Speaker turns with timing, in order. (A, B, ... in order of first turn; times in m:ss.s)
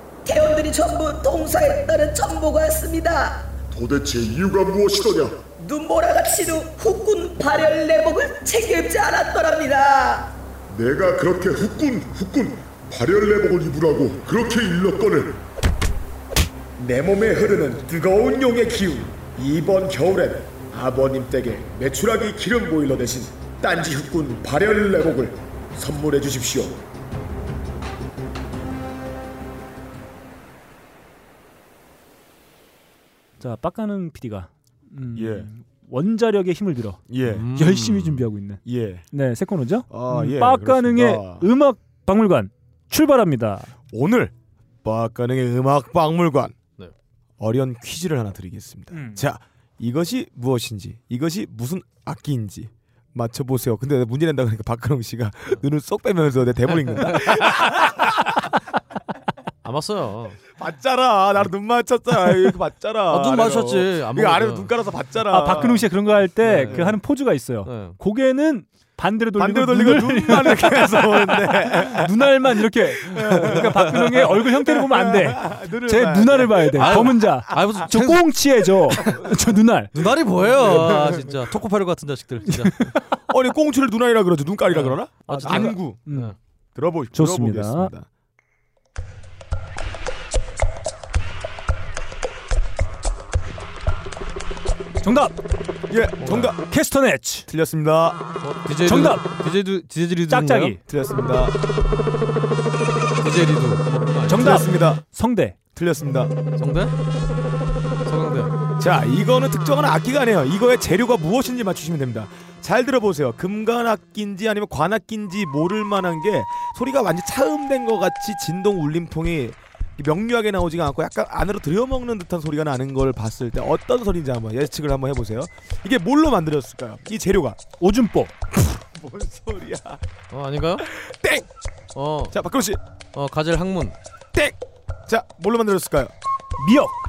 0:00.3-0:03.4 A
0:03.7-0:05.4 B
0:05.6-0:10.3 A
0:10.7-0:15.4 B
0:16.8-0:26.8 B
0:33.4-0:37.0 C
0:35.2-0:35.5 D
0:37.1-0:37.5 D
0:37.3-0:38.3 E
0:37.5-0:38.6 C
0:38.6-0:39.1 D
0:39.1-0:43.7 C
0:39.9-0:41.5 D
0:43.9-0:44.3 D
0:44.8-0:46.6 D
0:47.4-0:58.5 D
0:48.9-0:49.3 C
0:56.8-0:57.7 E
0:59.6-1:00.4 E
1:00.6-1:05.9 D
1:03.1-1:04.7 E
1:05.3-1:19.9 C
1:06.4-1:07.0 E
1:06.6-1:06.9 D
1:07.6-1:08.0 E
1:09.4-1:17.7 D
1:16.8-1:19.2 E
1:19.9-1:22.8 E
1:20.0-1:21.4 D
1:23.3-1:26.0 D
1:24.7-1:26.4 E
1:25.3-1:26.3 C
1:26.8-1:28.1 D
1:27.1-1:27.9 C
1:35.0-1:35.4 C
1:35.9-1:36.6 D
1:36.2-1:36.5 E
1:36.7-1:37.5 C
1:37.5-1:38.2 D
1:38.4-1:40.8 E
1:38.8-1:39.2 C
1:40.3-1:40.8 C
1:40.9-1:41.6 D
1:43.2-1:44.6 E
1:44.3-1:45.6 C
1:44.3-1:45.0 D
1:45.7-1:46.3 D
1:46.6-1:46.9 E
1:48.0-1:48.6 E
1:48.8-2:07.6 D
2:07.8-2:08.3 C
2:08.5-2:10.0 D
2:10.3-2:10.9 E
2:10.8-2:11.5 D
2:12.0-2:12.4 E
2:12.3-2:12.8 D
2:13.1-2:14.0 E
2:14.3-2:16.1 D
2:16.6-2:17.0 C